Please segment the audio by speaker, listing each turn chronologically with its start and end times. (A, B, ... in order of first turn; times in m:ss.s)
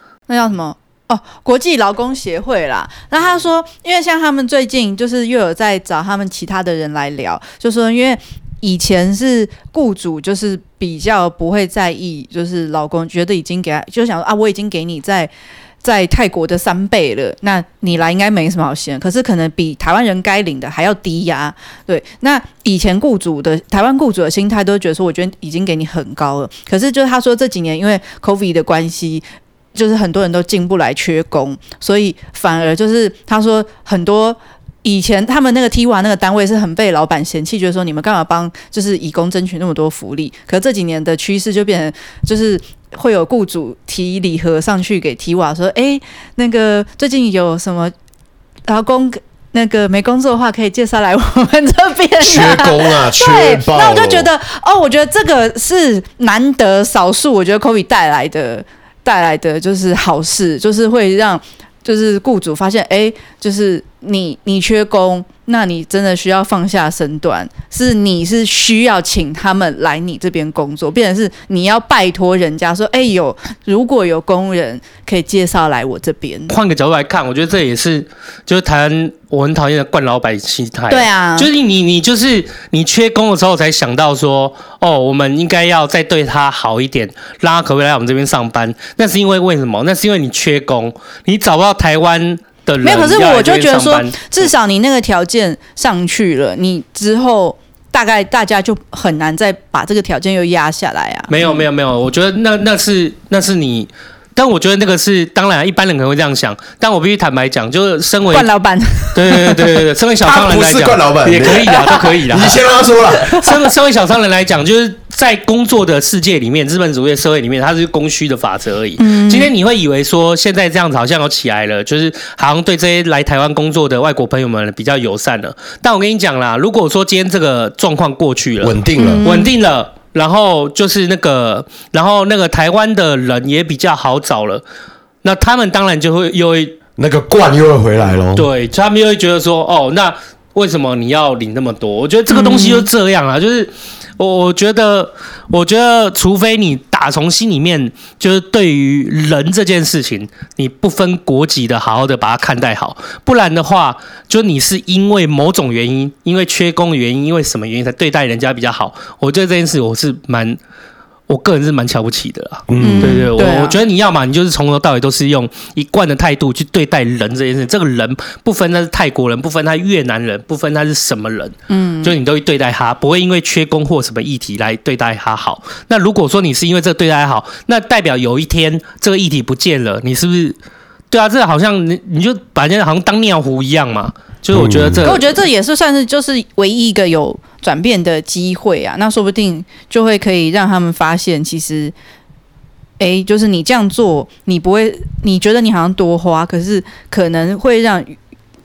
0:00.3-0:15.3 A
0:15.8-0:29.2 A
0:29.7-0:47.9 A
0:48.7-1:16.5 A
0:52.2-0:54.3 B
1:16.5-1:34.5 C
1:20.9-1:21.5 A
1:32.8-1:41.6 A
1:41.3-1:48.5 C
1:48.3-1:49.6 A
1:49.1-1:52.6 C
1:50.2-1:53.5 B
1:53.3-2:14.6 C
1:59.0-1:59.5 A
2:08.6-2:09.2 B
2:09.0-2:09.5 A
2:15.2-2:16.8 C
2:17.0-2:18.5 B
2:18.3-2:40.6 C
2:22.3-2:22.9 A
2:41.3-3:00.6 C
2:42.7-2:43.2 B
2:42.8-2:43.8 A
2:51.7-2:52.2 A
3:01.1-3:05.4 C
3:04.5-3:05.1 B
3:05.0-3:11.9 A
3:13.0-3:18.2 A